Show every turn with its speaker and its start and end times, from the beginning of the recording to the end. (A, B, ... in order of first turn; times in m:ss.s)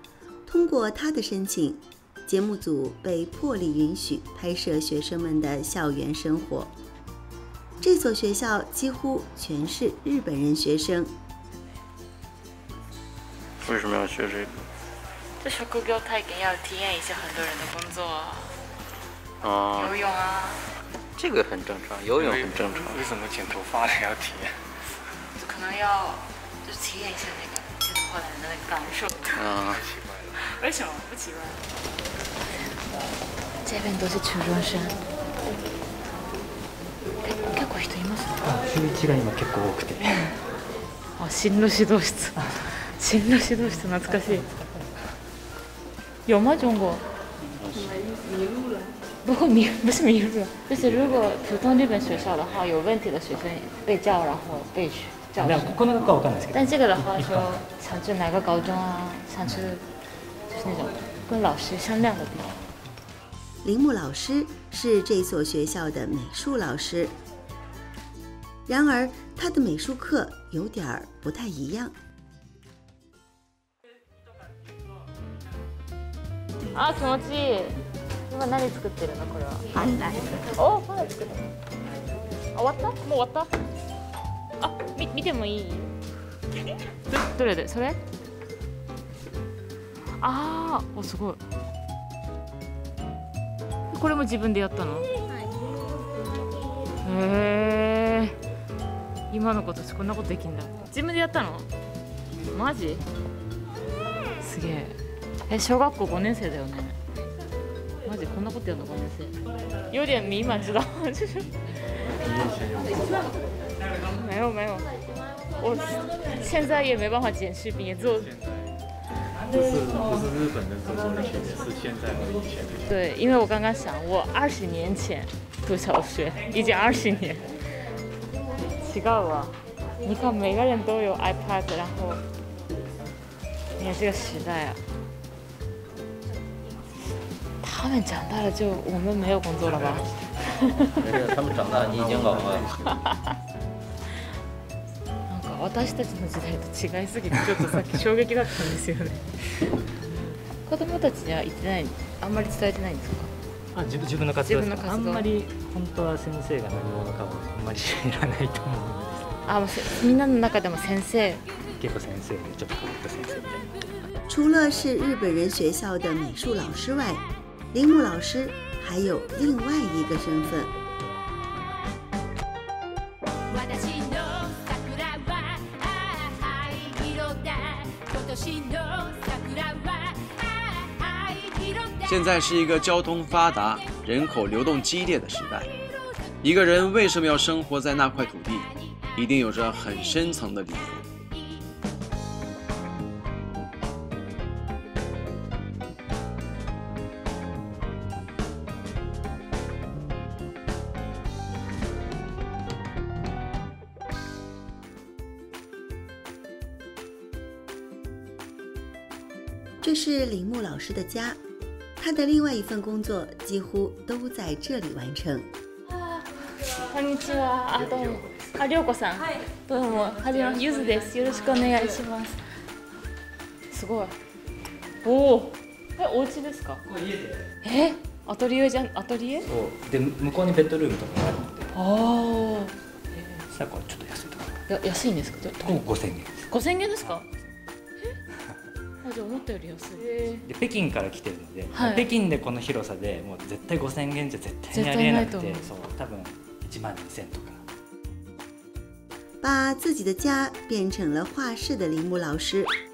0:00.5-0:06.7 A
0:07.8-0:11.1 A
0:13.6-0:14.6 B
0:15.4-0:18.6 C
0:19.4-0:19.9 B
0:19.7-0:20.6 C
0:21.2-0:23.0 B
0:22.2-0:24.5 D
0:25.4-0:29.5 C
0:29.4-0:29.8 B
0:29.7-0:30.4 D
0:30.4-0:31.6 C
0:33.6-0:35.0 C
0:37.2-0:38.5 C
0:38.4-0:40.4 E
0:41.2-0:44.5 C
0:44.1-0:44.8 E
0:46.3-0:47.0 C
0:47.6-0:48.0 B
0:49.2-0:55.8 C
0:55.4-0:57.6 E
0:56.5-0:59.8 C
1:00.5-1:02.6 C
1:03.6-1:07.1 A
1:08.7-1:12.0 A
1:16.7-1:21.3 C
1:22.5-1:23.5 C
1:24.6-1:25.9 C
1:27.1-1:28.0 C
1:30.2-1:31.4 C
1:33.9-1:35.1 C
1:37.0-1:38.4 C
1:39.3-1:41.7 C
1:42.5-1:43.0 C
1:44.4-1:47.0 C
1:48.0-1:49.4 C
1:49.9-1:51.6 C
1:52.2-1:53.4 D
1:54.0-1:54.9 C
1:55.5-1:58.3 C
1:58.0-1:58.8 D
1:59.5-2:00.2 E
1:59.5-2:02.9 D
2:02.9-2:07.5 C
2:08.7-2:12.2 C
2:13.8-2:14.8 C
2:17.6-2:20.9 C
2:21.0-2:22.7 B
2:21.9-2:22.6 D
2:25.3-2:33.3 C
2:33.7-2:39.3 E
2:34.4-2:35.3 C
2:39.4-2:41.5 C
2:41.8-2:43.7 E
2:44.3-2:50.7 A
3:02.1-3:05.7 F
3:06.4-3:08.7 F
3:09.2-3:11.0 F
3:29.8-3:31.4 A
3:32.0-3:35.5 A
3:36.6-3:42.5 C
3:37.7-3:38.6 E
3:43.7-3:44.2 C
3:45.0-3:46.8 C
3:46.8-3:47.5 E
3:47.6-3:49.5 C
3:49.5-3:51.8 E
3:51.7-3:53.4 C
3:53.5-3:54.6 E
3:54.7-3:55.8 C
3:55.6-3:56.4 E
3:56.5-3:57.2 C
3:57.0-3:57.6 E
3:59.0-4:00.4 C
4:00.4-4:07.6 E
4:01.7-4:02.1 C
4:04.7-4:05.7 C
4:09.4-4:12.7 A